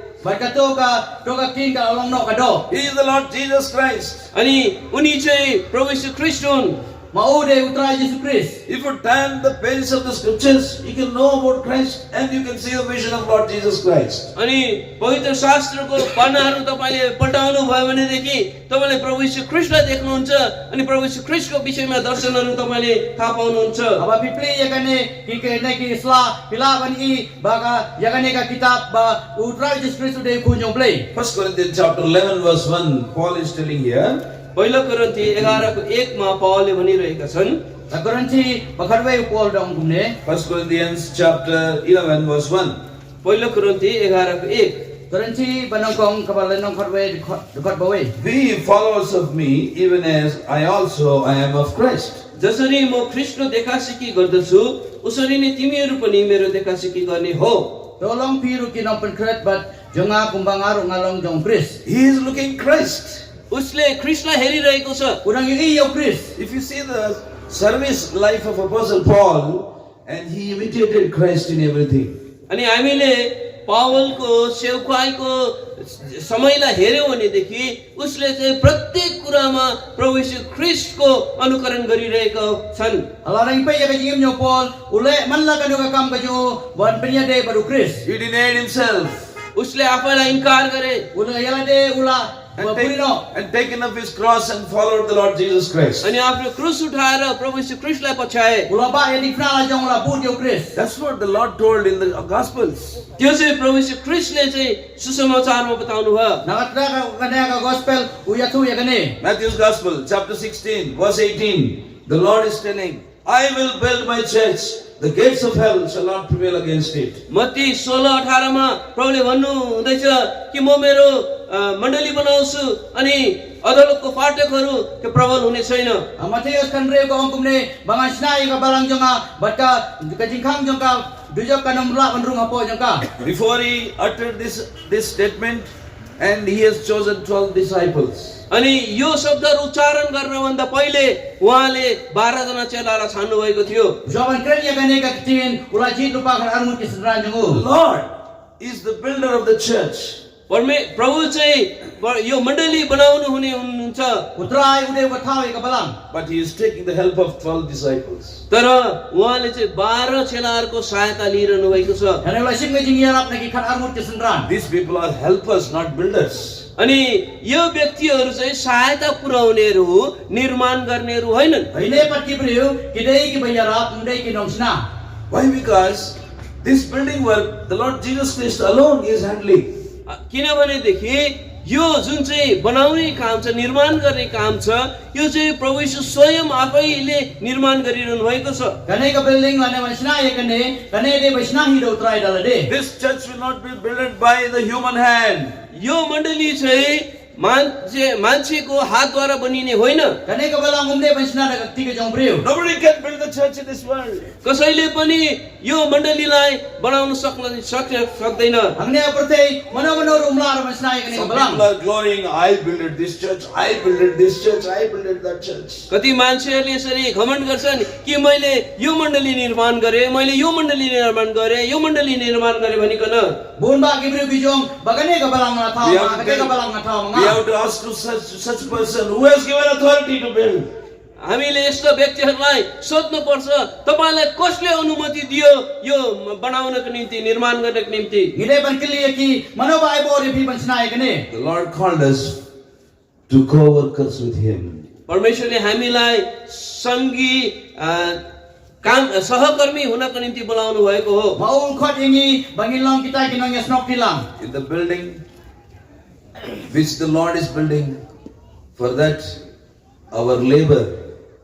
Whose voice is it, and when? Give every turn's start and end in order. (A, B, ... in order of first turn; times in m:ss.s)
0:00.2-0:02.6 A
0:02.7-0:04.2 B
0:04.3-0:06.8 C
0:07.1-0:08.6 A
0:08.7-0:14.3 B
0:14.4-0:24.0 C
0:24.0-0:31.0 A
0:31.1-0:34.2 B
0:34.6-0:37.6 C
0:37.9-0:40.2 A
0:40.2-0:42.8 B
0:43.2-0:44.8 C
0:45.1-0:48.1 A
0:48.2-0:52.2 B
0:52.4-0:57.8 C
0:58.0-1:01.8 A
1:01.8-1:03.2 B
1:03.5-1:05.2 C
1:05.2-1:06.3 A
1:06.4-1:12.1 B
1:12.5-1:23.1 C
1:23.2-1:28.0 A
1:28.0-1:29.2 B
1:29.5-1:31.1 C
1:31.1-1:33.2 A
1:32.6-1:36.1 B
1:36.0-1:38.7 C
1:38.7-1:40.7 A
1:40.8-1:43.0 B
1:43.2-1:46.4 C
1:46.4-1:49.1 A
1:49.2-1:57.2 B
1:57.3-2:06.0 C
2:06.2-2:13.1 A
2:13.2-2:18.4 B
2:18.5-2:24.0 C
2:24.0-2:27.6 A
2:27.4-2:30.2 B
2:30.5-2:34.2 C
2:34.4-2:36.0 A
2:36.1-2:38.4 B
2:38.5-2:42.2 C
2:42.2-2:44.5 A
2:44.5-2:46.6 B
2:46.8-2:51.7 C
2:51.7-2:54.8 A
2:51.8-2:52.0 B
2:55.3-2:59.7 B
3:00.1-3:08.8 C
3:08.9-3:12.7 A
3:12.7-3:15.6 B
3:15.7-3:20.1 C
3:20.2-3:22.4 A
3:22.4-3:24.3 B
3:24.4-3:28.7 C
3:28.8-3:31.6 A
3:31.1-3:35.9 B
3:35.9-3:43.4 C
3:43.6-3:47.4 A
3:45.8-3:46.5 B
3:47.1-3:50.7 B
3:51.2-3:58.3 C
3:58.4-4:01.2 A
4:01.3-4:02.4 B
4:03.3-4:04.8 B
4:05.1-4:08.2 C
4:08.8-4:11.4 C
4:11.4-4:14.2 A
4:14.4-4:15.2 B
4:16.7-4:18.0 B
4:18.8-4:19.4 B
4:20.1-4:21.0 B